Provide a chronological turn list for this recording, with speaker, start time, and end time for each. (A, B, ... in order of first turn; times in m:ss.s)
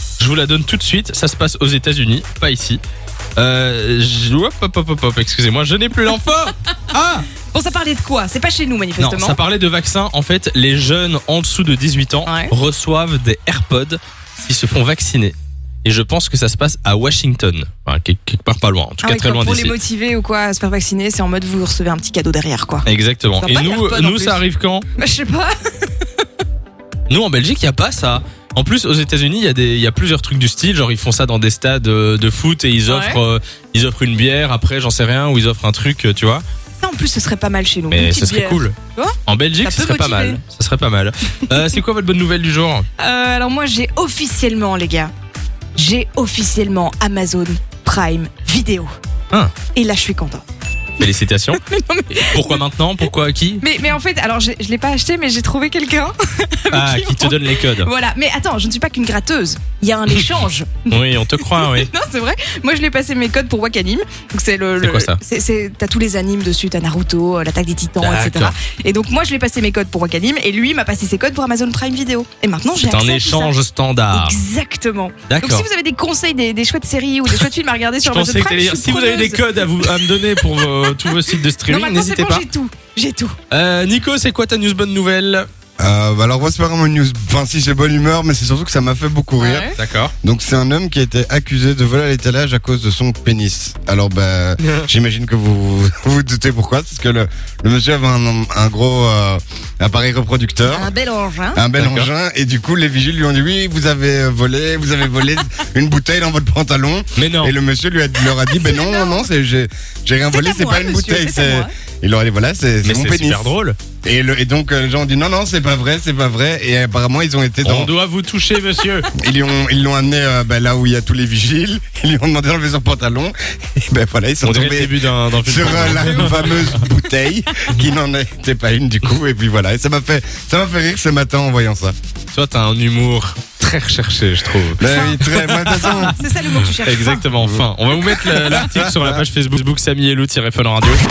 0:00.2-0:02.8 A
0:03.4-0:07.3 A
0:07.5-0:09.4 B
0:09.0-0:19.7 A
0:12.2-0:12.5 B
0:19.0-0:22.8 B
0:22.8-0:24.8 A
0:23.4-0:24.4 B
0:25.0-0:25.9 B
0:27.1-0:36.4 A
0:32.9-0:33.2 B
0:36.8-0:40.4 B
0:37.9-0:38.7 A
0:39.2-0:42.8 A
0:43.0-0:45.1 B
0:45.8-0:48.9 B
0:49.7-0:50.4 B
0:51.0-0:51.6 A
0:51.5-0:52.6 B
0:52.1-0:53.6 A
0:53.6-1:13.5 B
0:56.7-0:57.9 A
1:00.9-1:01.9 A
1:04.8-1:05.2 A
1:08.0-1:08.5 A
1:12.8-1:14.4 A
1:14.1-1:21.1 B
1:15.3-1:15.7 A
1:18.0-1:22.4 A
1:21.7-1:23.4 B
1:23.5-1:25.5 A
1:25.8-1:40.9 C
1:29.4-1:29.8 B
1:29.8-1:30.1 A
1:34.6-1:34.9 A
1:40.6-1:41.6 B
1:41.5-1:53.5 C
1:41.8-1:42.1 A
1:47.2-1:47.5 A
1:48.5-1:49.2 B
1:50.3-1:51.7 B
1:52.8-1:53.8 A
1:54.0-1:57.9 C
1:57.6-1:59.1 A
1:59.1-2:11.9 C
2:04.4-2:06.8 A
2:12.3-2:21.0 A
2:14.8-2:16.2 C
2:14.8-2:17.2 B
2:17.4-2:19.2 C